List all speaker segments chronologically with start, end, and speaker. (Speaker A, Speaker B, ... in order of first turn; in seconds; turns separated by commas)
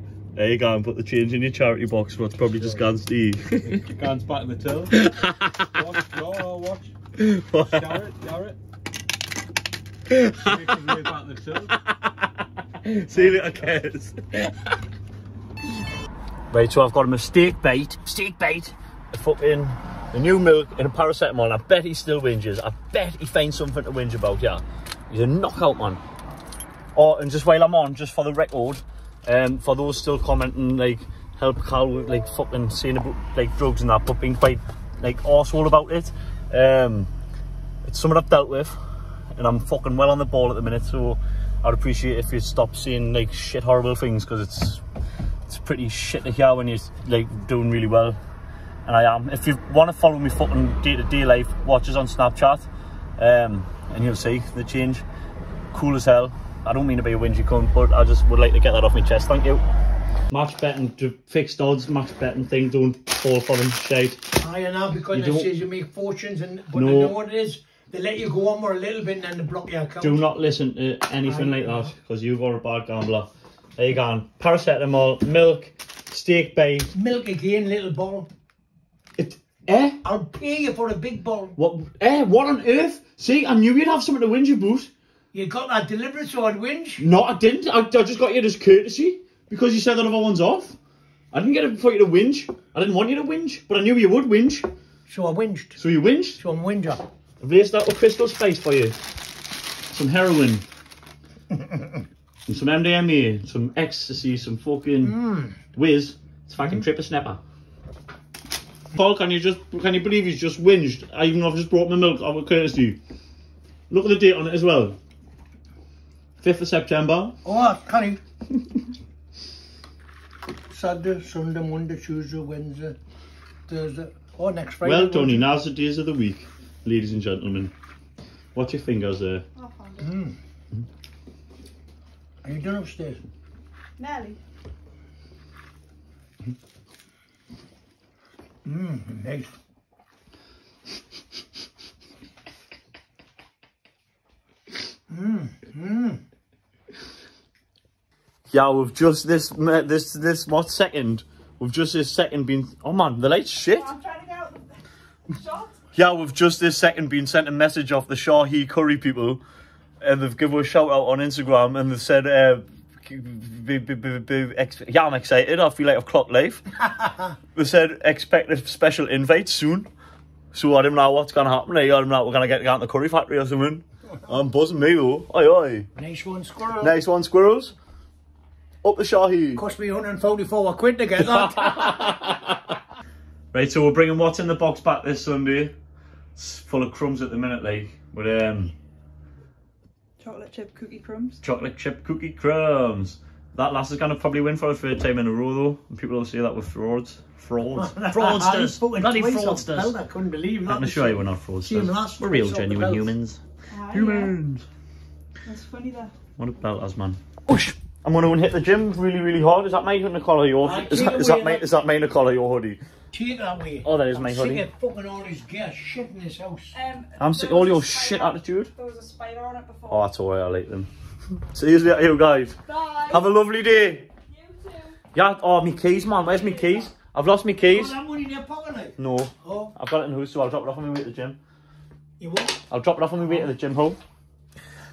Speaker A: 0.4-3.8, Speaker B: 2.6-2.9, Speaker B: 3.7-5.0, Speaker A: 4.9-5.8, Speaker B: 5.7-6.9, Speaker A: 7.2-8.0, Speaker B: 7.7-8.6, Speaker A: 10.1-11.1, Speaker B: 10.4-11.8, Speaker A: 11.7-12.3, Speaker A: 12.8-14.7, Speaker B: 13.1-13.7, Speaker A: 16.5-26.0, Speaker A: 26.9-37.1, Speaker A: 37.9-38.8, Speaker A: 39.4-44.8, Speaker A: 45.5-48.2, Speaker A: 48.9-55.0, Speaker A: 55.7-59.6, Speaker A: 60.3-64.2, Speaker C: 64.4-70.2, Speaker A: 65.1-65.5, Speaker A: 66.7-67.2, Speaker A: 70.0-76.9, Speaker C: 71.2-71.9, Speaker C: 76.9-78.3, Speaker A: 79.2-80.0, Speaker C: 80.0-81.6, Speaker A: 81.6-84.9, Speaker C: 85.3-87.0, Speaker A: 87.0-90.8, Speaker A: 91.3-94.7, Speaker C: 95.1-95.8, Speaker A: 95.8-96.4, Speaker C: 96.4-97.0, Speaker A: 97.4-99.0, Speaker A: 99.9-100.7, Speaker A: 102.5-105.2, Speaker C: 105.0-105.5, Speaker A: 105.7-107.4, Speaker A: 109.0-113.0, Speaker A: 113.9-115.0, Speaker A: 116.4-117.4, Speaker C: 117.4-118.2, Speaker C: 120.7-123.0, Speaker C: 123.7-125.5, Speaker A: 124.8-127.7, Speaker A: 128.6-129.4, Speaker D: 129.6-130.1, Speaker C: 130.0-130.4, Speaker C: 132.4-133.2, Speaker D: 134.0-134.4, Speaker C: 138.7-139.5, Speaker C: 145.1-146.2, Speaker A: 148.5-153.9, Speaker D: 153.7-155.8, Speaker A: 155.9-159.4, Speaker A: 160.0-166.7, Speaker C: 166.9-167.3, Speaker A: 167.6-169.9, Speaker A: 170.5-175.9, Speaker C: 176.0-176.9, Speaker A: 176.8-177.8, Speaker A: 178.8-179.6, Speaker C: 179.6-182.2, Speaker A: 181.6-182.4, Speaker A: 183.5-185.7, Speaker A: 186.4-188.7, Speaker D: 190.2-191.4, Speaker A: 191.4-200.0, Speaker C: 197.8-203.1, Speaker A: 200.7-203.4, Speaker D: 203.7-204.3, Speaker A: 203.9-204.7, Speaker D: 205.4-206.1, Speaker A: 206.4-212.8, Speaker C: 210.6-211.8, Speaker C: 213.1-216.8, Speaker A: 213.8-214.7, Speaker D: 216.7-220.1, Speaker A: 217.2-218.7, Speaker A: 219.9-220.9, Speaker A: 221.5-222.6, Speaker D: 222.7-223.2, Speaker A: 223.1-224.1, Speaker D: 224.3-225.0, Speaker A: 225.1-227.9, Speaker D: 226.2-226.9, Speaker C: 227.6-229.7, Speaker A: 229.0-231.4, Speaker C: 232.2-232.6, Speaker A: 232.7-234.0